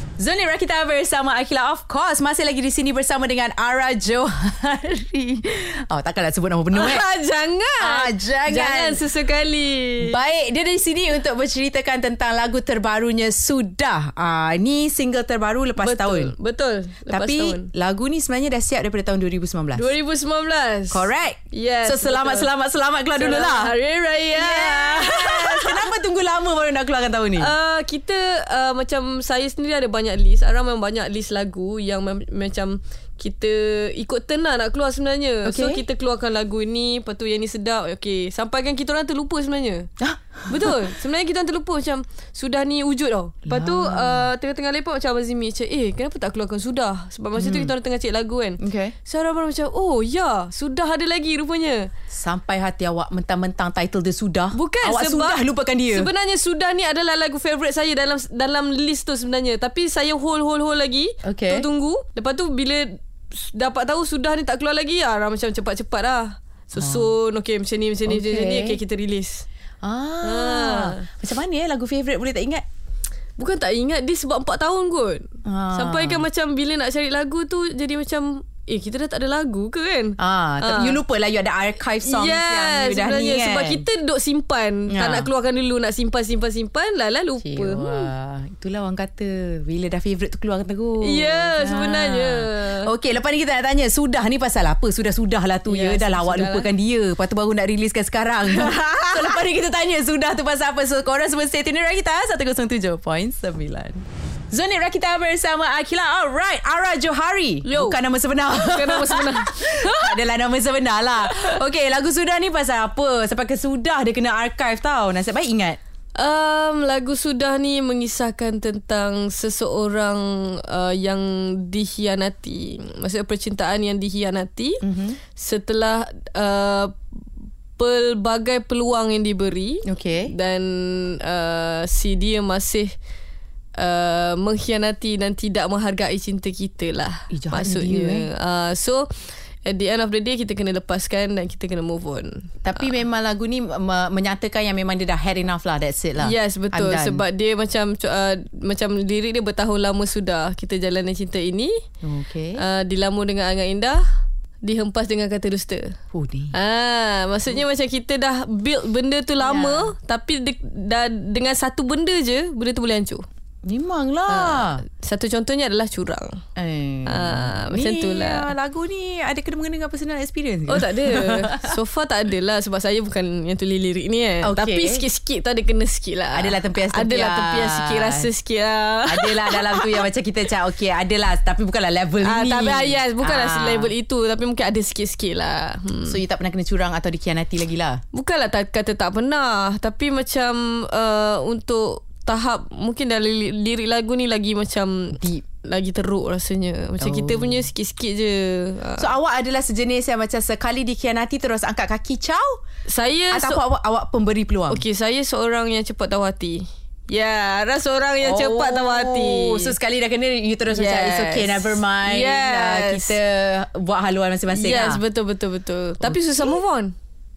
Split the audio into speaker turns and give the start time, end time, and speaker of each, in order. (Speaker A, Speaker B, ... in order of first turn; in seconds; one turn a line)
Speaker A: 0.2-7.0
Speaker B: 6.7-10.2
Speaker A: 7.8-9.0
Speaker A: 10.0-16.3
Speaker B: 15.8-17.7
Speaker A: 17.1-19.9
Speaker B: 19.8-22.5
Speaker A: 20.9-23.7
Speaker B: 23.1-25.8
Speaker A: 24.3-27.5
Speaker B: 27.4-39.9
Speaker A: 35.4-35.8
Speaker A: 40.0-40.9
Speaker B: 40.5-51.9
Speaker A: 43.5-44.3
Speaker A: 47.4-47.7
Speaker A: 48.6-48.9
Speaker A: 52.1-56.1
Speaker B: 54.5-69.5
Speaker A: 61.2-61.7
Speaker A: 66.7-67.1
Speaker A: 68.1-68.8
Speaker A: 69.8-72.6
Speaker B: 70.2-71.1
Speaker B: 73.4-81.0
Speaker A: 75.5-76.2
Speaker A: 80.2-83.9
Speaker B: 82.0-88.1
Speaker A: 84.9-85.3
Speaker A: 87.4-115.8
Speaker B: 91.0-92.9
Speaker B: 95.7-96.7
Speaker B: 98.5-99.4
Speaker B: 107.7-108.0
Speaker B: 108.5-110.2
Speaker B: 111.3-111.6
Speaker B: 116.2-124.8
Speaker A: 124.8-125.2
Speaker B: 125.3-127.0
Speaker B: 127.8-132.9
Speaker A: 129.9-130.3
Speaker B: 133.8-139.1
Speaker A: 137.3-138.3
Speaker B: 139.7-142.5
Speaker A: 142.6-147.2
Speaker B: 146.2-151.7
Speaker A: 152.0-152.6
Speaker B: 152.6-154.0
Speaker B: 154.6-155.9
Speaker A: 156.1-156.6
Speaker B: 156.5-163.2
Speaker A: 159.4-159.9
Speaker A: 163.6-164.8
Speaker B: 164.3-166.4
Speaker A: 166.6-171.7
Speaker B: 167.1-168.5
Speaker B: 170.7-180.0
Speaker A: 174.4-175.0
Speaker A: 176.3-178.3
Speaker A: 179.1-183.9
Speaker B: 182.2-186.2
Speaker A: 186.1-188.0
Speaker B: 188.1-199.1
Speaker A: 195.2-195.4
Speaker A: 197.0-197.6
Speaker A: 199.0-202.6
Speaker B: 202.9-203.6
Speaker A: 203.3-204.8
Speaker B: 204.7-209.8
Speaker A: 208.2-215.0
Speaker B: 210.7-213.2
Speaker B: 214.5-216.9
Speaker A: 216.0-216.5